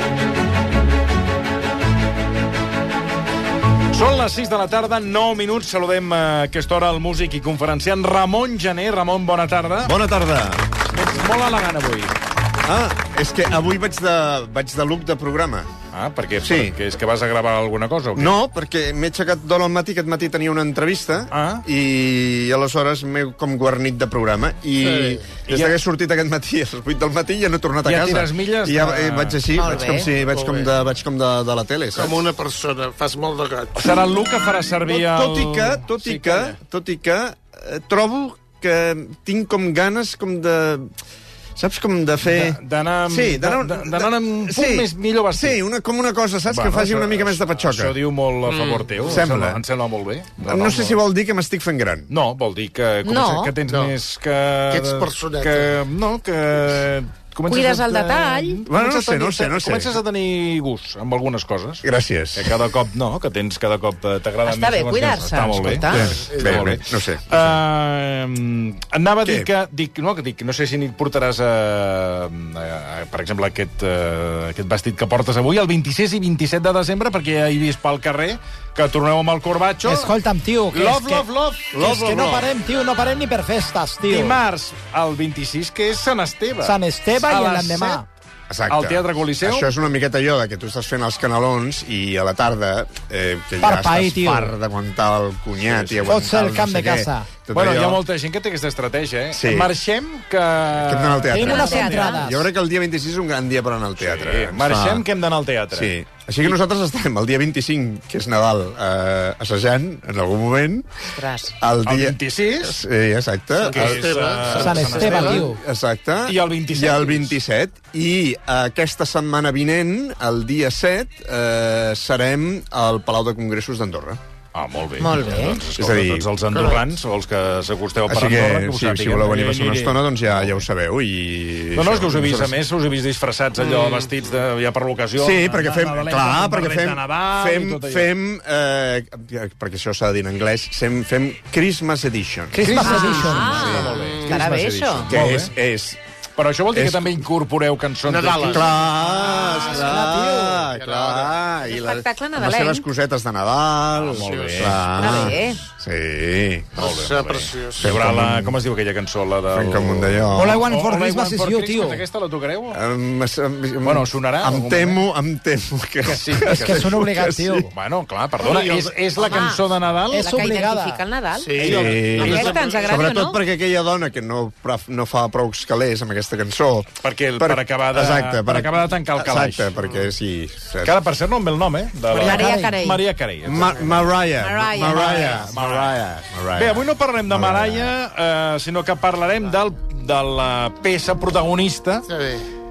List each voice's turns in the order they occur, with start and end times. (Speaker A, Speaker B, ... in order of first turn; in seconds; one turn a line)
Speaker A: 3.9-9.9
Speaker B: 9.8-10.6
Speaker A: 10.9-12.2
Speaker B: 12.6-15.7
Speaker A: 15.9-18.3
Speaker B: 16.4-16.8
Speaker B: 18.1-32.2
Speaker A: 21.3-21.6
Speaker C: 24.8-25.3
Speaker A: 25.5-25.8
Speaker A: 27.8-29.4
Speaker D: 29.5-30.1
Speaker C: 30.2-30.7
Speaker C: 31.9-34.1
Speaker A: 33.7-36.6
Speaker B: 34.8-40.9
Speaker B: 41.5-47.9
Speaker A: 42.2-45.6
Speaker A: 46.5-51.0
Speaker C: 48.5-49.2
Speaker B: 49.1-49.6
Speaker B: 50.4-52.1
Speaker A: 52.1-80.1
Speaker D: 53.0-53.5
Speaker C: 53.6-54.0
Speaker C: 54.7-55.7
Speaker D: 57.5-58.6
Speaker B: 58.6-59.9
Speaker B: 61.8-62.5
Speaker D: 64.5-66.1
Speaker B: 65.9-67.6
Speaker C: 66.1-66.7
Speaker B: 69.2-69.5
Speaker E: 79.8-84.4
Speaker A: 80.7-81.8
Speaker B: 81.7-82.5
Speaker A: 84.0-88.0
Speaker E: 86.6-88.0
Speaker B: 88.5-98.0
Speaker A: 88.7-89.7
Speaker E: 93.6-94.5
Speaker A: 95.6-96.3
Speaker E: 96.1-97.3
Speaker A: 97.5-102.1
Speaker B: 99.3-99.7
Speaker B: 100.7-105.0
Speaker E: 101.3-102.4
Speaker D: 101.3-102.2
Speaker A: 104.0-105.9
Speaker B: 105.7-110.9
Speaker D: 111.1-111.5
Speaker B: 111.6-124.2
Speaker A: 111.8-112.8
Speaker C: 113.6-115.4
Speaker A: 113.7-115.5
Speaker E: 114.5-115.6
Speaker A: 116.3-117.4
Speaker A: 124.5-130.6
Speaker D: 125.0-125.6
Speaker B: 125.8-126.3
Speaker C: 126.5-126.8
Speaker B: 128.1-132.6
Speaker A: 131.7-138.1
Speaker C: 133.6-134.1
Speaker B: 135.2-142.7
Speaker E: 142.5-143.6
Speaker A: 142.5-145.5
Speaker D: 142.7-145.1
Speaker B: 143.4-143.9
Speaker C: 143.7-144.4
Speaker B: 145.1-146.0
Speaker A: 146.4-148.8
Speaker B: 146.7-147.2
Speaker C: 148.0-151.4
Speaker B: 148.5-156.8
Speaker E: 149.8-150.7
Speaker D: 151.6-152.8
Speaker A: 153.9-155.2
Speaker C: 154.1-155.3
Speaker D: 154.9-155.6
Speaker C: 156.8-157.9
Speaker A: 156.8-162.8
Speaker B: 157.8-158.6
Speaker B: 159.5-160.6
Speaker E: 160.3-162.0
Speaker B: 162.7-167.7
Speaker A: 163.8-165.0
Speaker A: 166.1-166.8
Speaker E: 166.3-167.7
Speaker A: 167.7-170.4
Speaker C: 168.4-168.9
Speaker D: 169.1-173.4
Speaker E: 170.1-171.0
Speaker C: 171.3-172.8
Speaker A: 171.6-172.6
Speaker B: 171.6-180.9
Speaker A: 177.0-179.7
Speaker C: 179.8-180.1
Speaker A: 180.8-184.1
Speaker D: 182.1-183.0
Speaker E: 182.2-182.7
Speaker B: 183.4-187.9
Speaker D: 184.4-185.4
Speaker A: 184.9-185.9
Speaker A: 186.5-192.1
Speaker C: 192.1-192.4